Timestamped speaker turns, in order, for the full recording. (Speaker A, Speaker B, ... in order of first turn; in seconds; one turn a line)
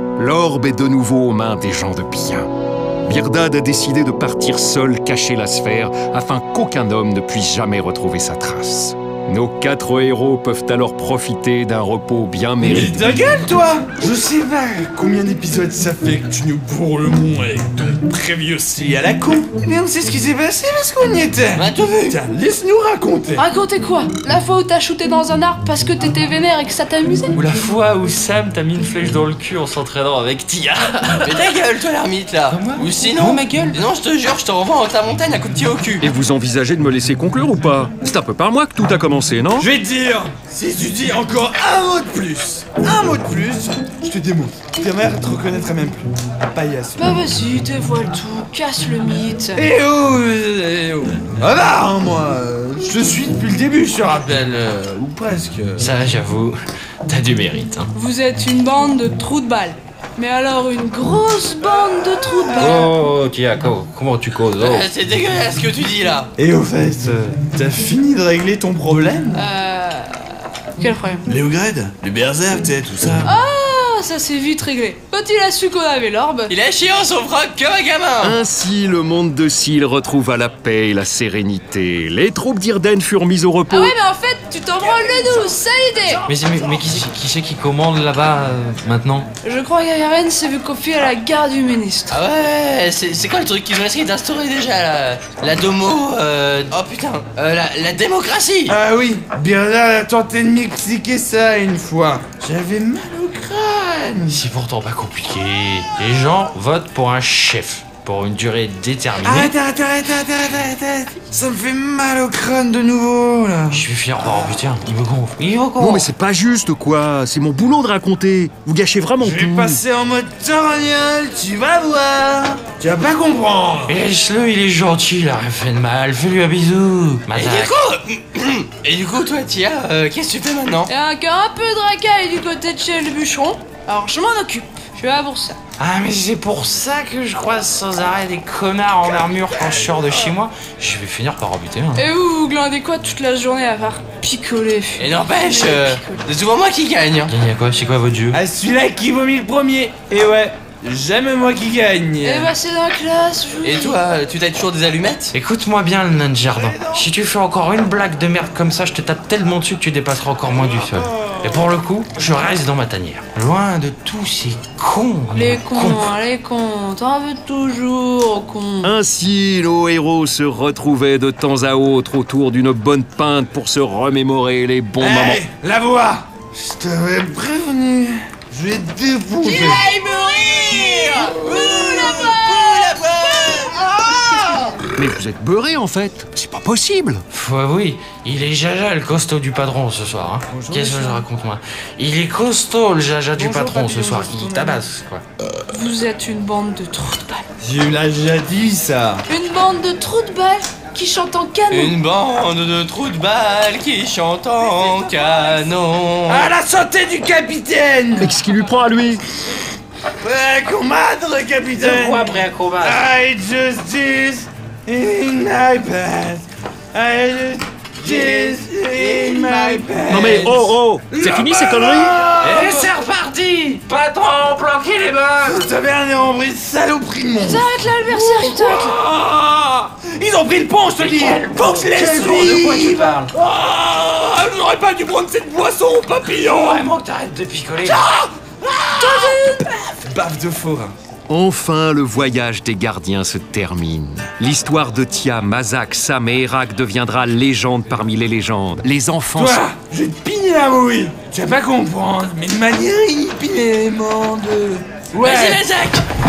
Speaker A: 0.2-2.5
Speaker A: 3.0-13.0
Speaker B: 12.6-23.4
Speaker C: 21.6-22.2
Speaker D: 23.4-27.4
Speaker E: 27.4-31.6
Speaker C: 31.2-36.1
Speaker E: 32.5-33.8
Speaker A: 36.0-39.7
Speaker B: 39.6-47.2
Speaker D: 47.0-49.6
Speaker B: 49.6-55.9
Speaker E: 55.8-56.6
Speaker E: 57.1-57.9
Speaker D: 57.9-62.9
Speaker B: 61.6-62.9
Speaker E: 62.6-64.9
Speaker C: 64.5-66.3
Speaker B: 66.4-69.4
Speaker D: 69.3-71.2
Speaker B: 71.3-73.3
Speaker D: 73.2-76.5
Speaker C: 76.5-78.4
Speaker A: 78.2-84.0
Speaker D: 83.7-86.2
Speaker B: 84.8-85.6
Speaker B: 86.1-87.1
Speaker E: 86.3-89.3
Speaker D: 89.4-92.2
Speaker C: 92.1-98.8
Speaker B: 98.7-104.4
Speaker E: 104.3-109.5
Speaker B: 109.2-114.7
Speaker E: 113.7-116.1
Speaker A: 115.8-119.8
Speaker B: 119.2-124.0
Speaker E: 123.9-127.8
Speaker C: 127.3-130.9
Speaker D: 130.9-135.6
Speaker E: 135.8-142.1
Speaker D: 141.9-146.2
Speaker C: 145.0-147.3
Speaker E: 147.3-148.4
Speaker B: 148.3-152.5
Speaker D: 152.2-154.0
Speaker C: 153.6-155.3
Speaker E: 155.3-166.1
Speaker B: 156.5-157.1
Speaker B: 160.5-161.7
Speaker D: 165.3-168.9
Speaker A: 168.8-175.4
Speaker B: 175.0-179.9
Speaker C: 179.4-184.6
Speaker B: 181.4-182.3
Speaker A: 184.9-187.2
Speaker E: 187.3-195.2
Speaker B: 190.5-191.3
Speaker B: 193.4-194.9
Speaker D: 195.7-197.5
Speaker B: 197.6-199.2
Speaker D: 199.3-202.0
Speaker C: 201.7-206.5
Speaker B: 206.3-208.4
Speaker A: 208.2-209.2
Speaker B: 210.2-222.9
Speaker E: 211.7-213.0
Speaker C: 218.0-220.0
Speaker A: 220.1-222.2
Speaker E: 222.4-225.7
Speaker B: 225.4-236.9
Speaker D: 227.4-229.0
Speaker E: 231.0-233.3
Speaker E: 236.4-238.1
Speaker B: 237.8-239.4
Speaker D: 239.0-239.8
Speaker B: 240.1-240.9
Speaker A: 241.3-249.6
Speaker B: 249.4-255.6
Speaker C: 255.2-256.0